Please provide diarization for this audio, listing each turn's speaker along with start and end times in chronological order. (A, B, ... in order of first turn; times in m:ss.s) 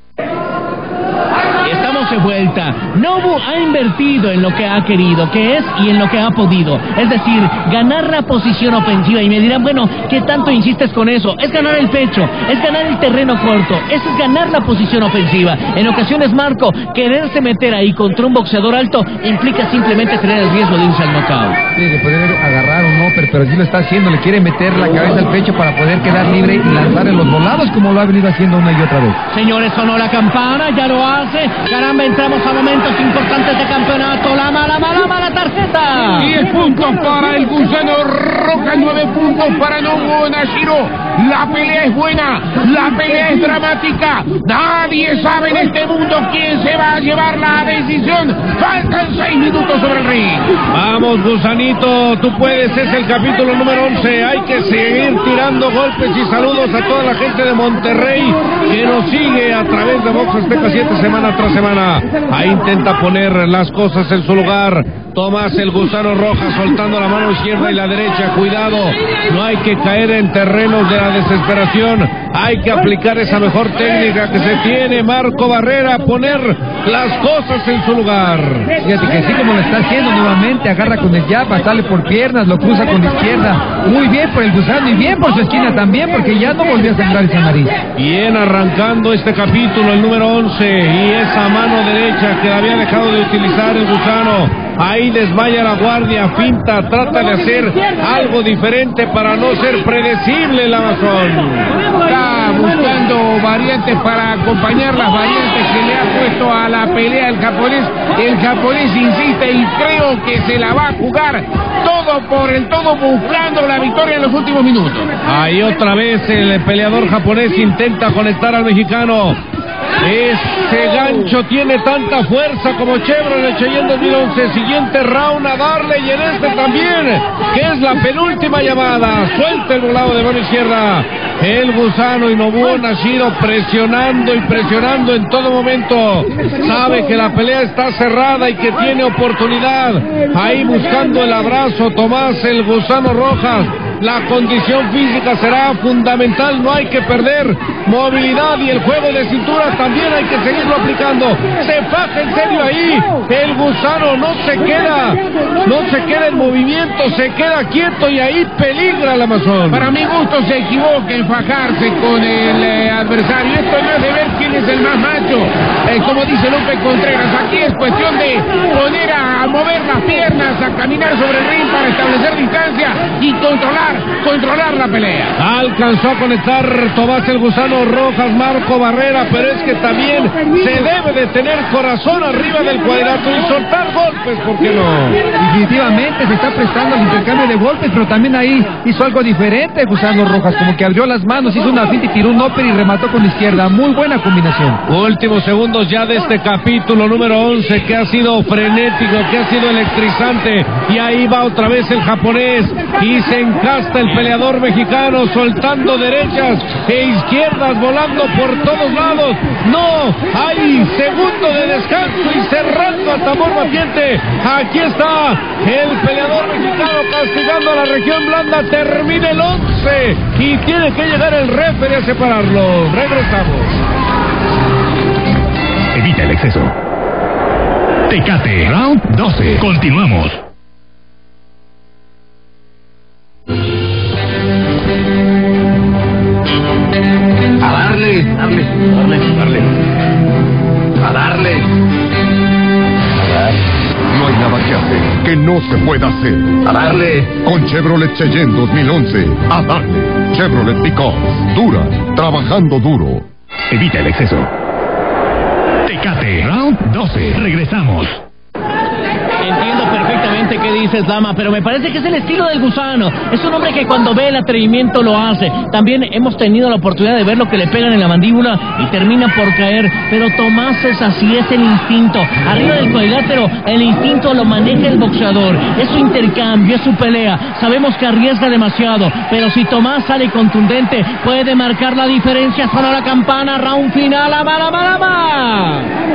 0:01.6-0:21.6 A
0:21.8-0:29.2 B
0:29.3-0:36.4 A
0:36.2-0:50.5 C
0:50.7-1:18.7 D
1:18.8-1:27.7 B
1:28.0-1:41.8 D
1:42.0-1:55.1 C
1:55.2-1:59.4 D
2:00.0-2:39.9 D
2:39.7-2:55.3 C
2:55.4-3:05.2 D
3:05.3-3:14.8 B
3:14.9-3:43.8 D
3:45.9-3:46.7 E
3:48.1-3:50.4 E
3:57.6-3:59.7 F
4:01.0-4:01.6 F
4:04.1-4:13.2 G
4:06.8-4:07.3 F
4:13.7-4:14.5 E
4:15.8-4:18.2 E
4:19.4-4:45.9 A